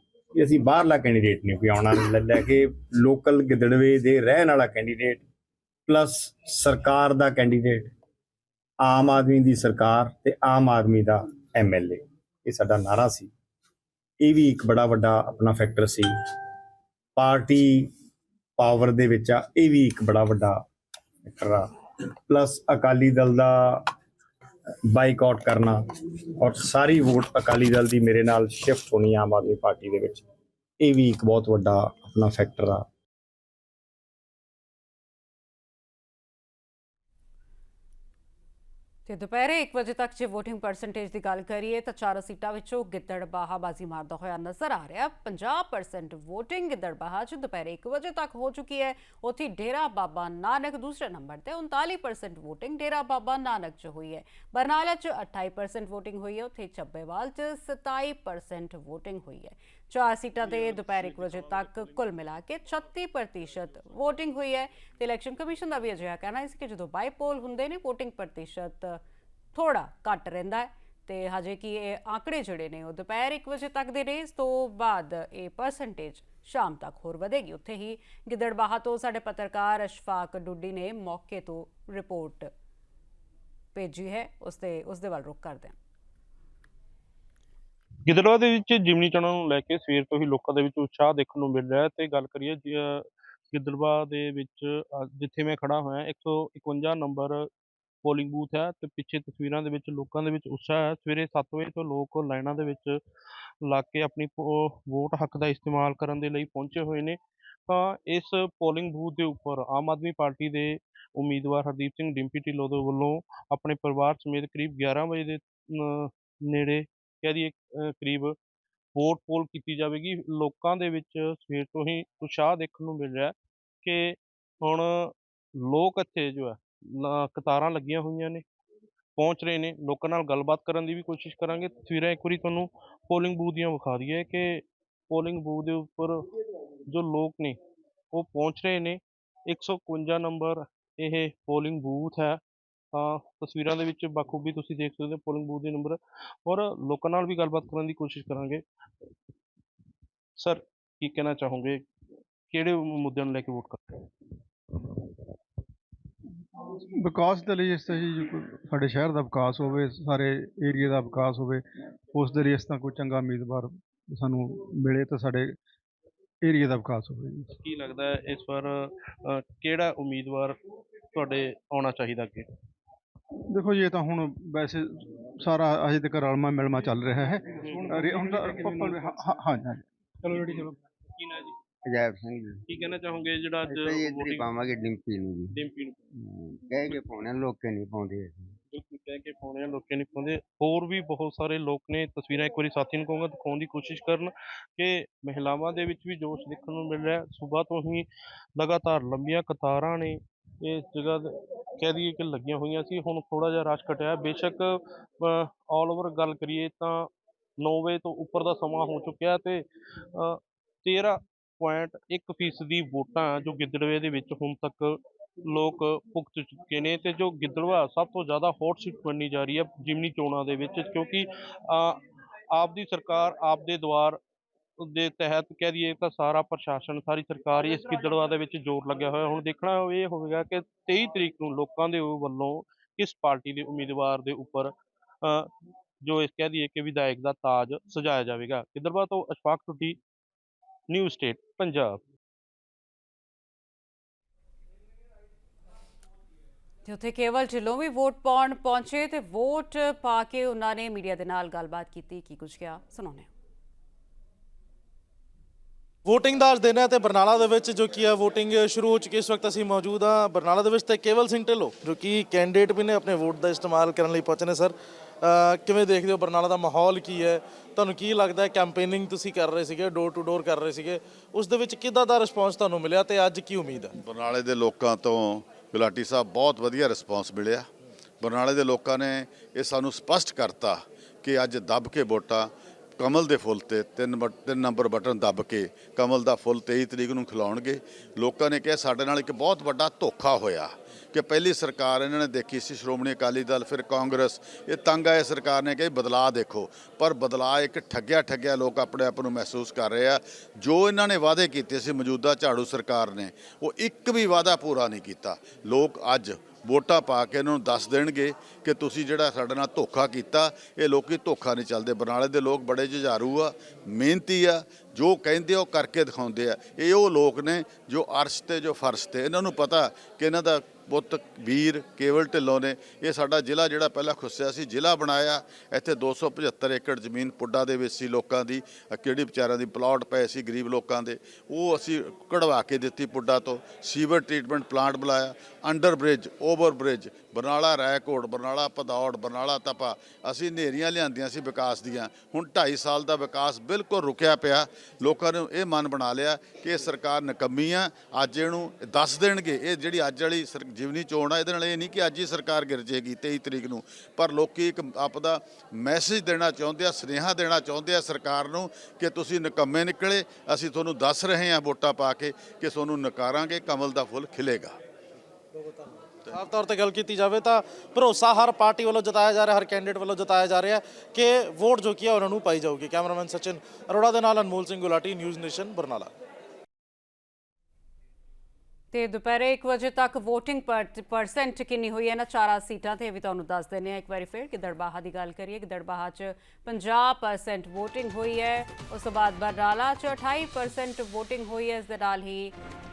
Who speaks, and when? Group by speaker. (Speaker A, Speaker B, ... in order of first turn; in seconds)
Speaker A: 0.3-5.2, 5.9-7.9, 8.8-13.3, 14.2-16.1, 17.2-17.9, 18.6-20.6, 21.2-21.7, 22.3-23.9, 24.9-25.8, 26.4-30.2, 30.8-32.9
Speaker B: 39.1-69.0, 69.5-82.5, 83.7-85.8, 246.9-253.3, 378.9-392.5
Speaker C: 88.1-97.5, 98.0-103.0, 103.7-118.3, 119.0-128.4, 129.2-136.3, 136.9-137.6, 138.1-142.4, 142.9-148.6, 150.4-151.9, 152.5-154.0, 167.5-170.6, 171.1-172.5, 177.6-179.3, 180.2-181.6, 182.7-184.6, 185.5-186.0, 188.7-198.1, 198.6-207.1, 207.6-222.0, 222.5-224.2, 224.8-235.5, 236.1-240.0, 240.9-242.0
Speaker D: 157.0-161.6, 162.1-165.5, 166.4-167.5, 173.5-174.8, 175.4-179.8
Speaker E: 181.8-182.6, 183.7-185.5, 186.2-188.6
Speaker F: 256.1-273.9, 366.3-376.1
Speaker G: 274.0-277.7, 278.2-364.8